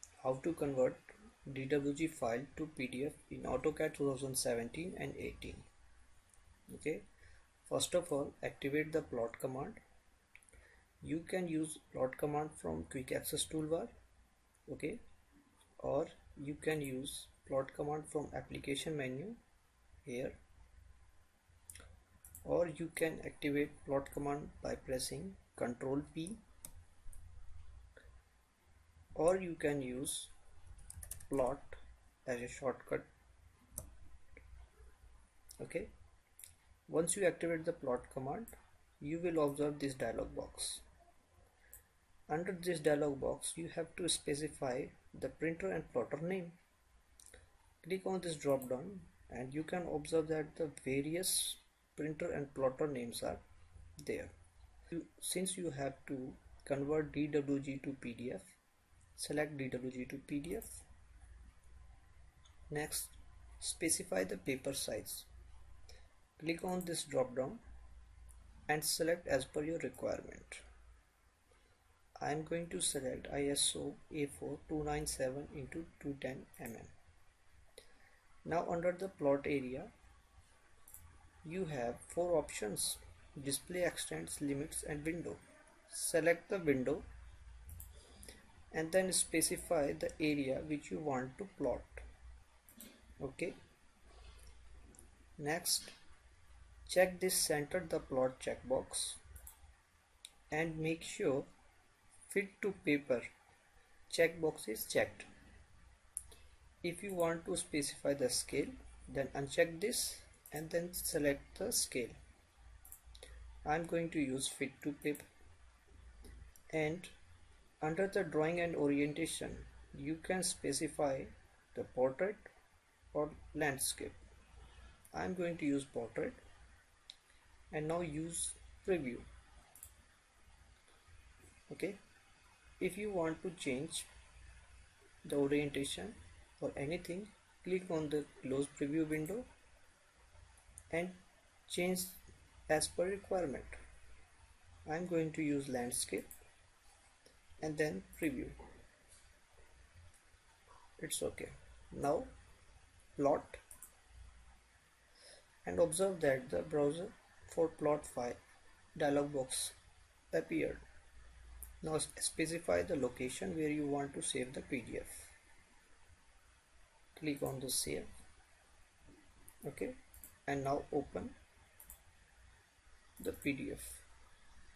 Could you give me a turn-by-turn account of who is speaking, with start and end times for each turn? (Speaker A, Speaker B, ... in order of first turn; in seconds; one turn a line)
Speaker A: 0.2-5.7
Speaker A: 6.7-7.1
Speaker A: 7.7-9.8
Speaker A: 11.0-13.9
Speaker A: 14.7-15.0
Speaker A: 15.8-19.4
Speaker A: 20.1-20.4
Speaker A: 22.4-26.4
Speaker A: 29.2-30.3
Speaker A: 31.3-33.1
Speaker A: 35.6-35.9
Speaker A: 36.9-40.8
Speaker A: 42.3-46.6
Speaker A: 47.8-53.4
Speaker A: 54.0-54.3
Speaker A: 54.9-58.5
Speaker A: 59.2-60.9
Speaker A: 62.7-65.3
Speaker A: 66.4-67.6
Speaker A: 68.7-70.6
Speaker A: 72.2-76.9
Speaker A: 78.5-79.9
Speaker A: 81.4-87.0
Speaker A: 88.7-92.0
Speaker A: 93.2-93.5
Speaker A: 95.4-95.9
Speaker A: 96.9-99.2
Speaker A: 100.5-101.5
Speaker A: 102.3-103.3
Speaker A: 104.1-105.3
Speaker A: 106.8-112.2
Speaker A: 113.6-115.2
Speaker A: 116.7-117.1
Speaker A: 117.8-122.5
Speaker A: 123.1-124.2
Speaker A: 125.1-126.4
Speaker A: 127.7-129.3
Speaker A: 131.7-132.0
Speaker A: 132.8-134.1
Speaker A: 135.2-139.5
Speaker A: 140.9-143.8
Speaker A: 144.8-146.3
Speaker A: 147.6-148.6
Speaker A: 151.0-152.3
Speaker A: 153.2-153.6
Speaker A: 155.6-158.4
Speaker A: 158.9-159.8
Speaker A: 160.3-160.8
Speaker A: 161.8-165.3
Speaker A: 167.2-168.1
Speaker A: 169.6-171.4
Speaker A: 173.2-174.1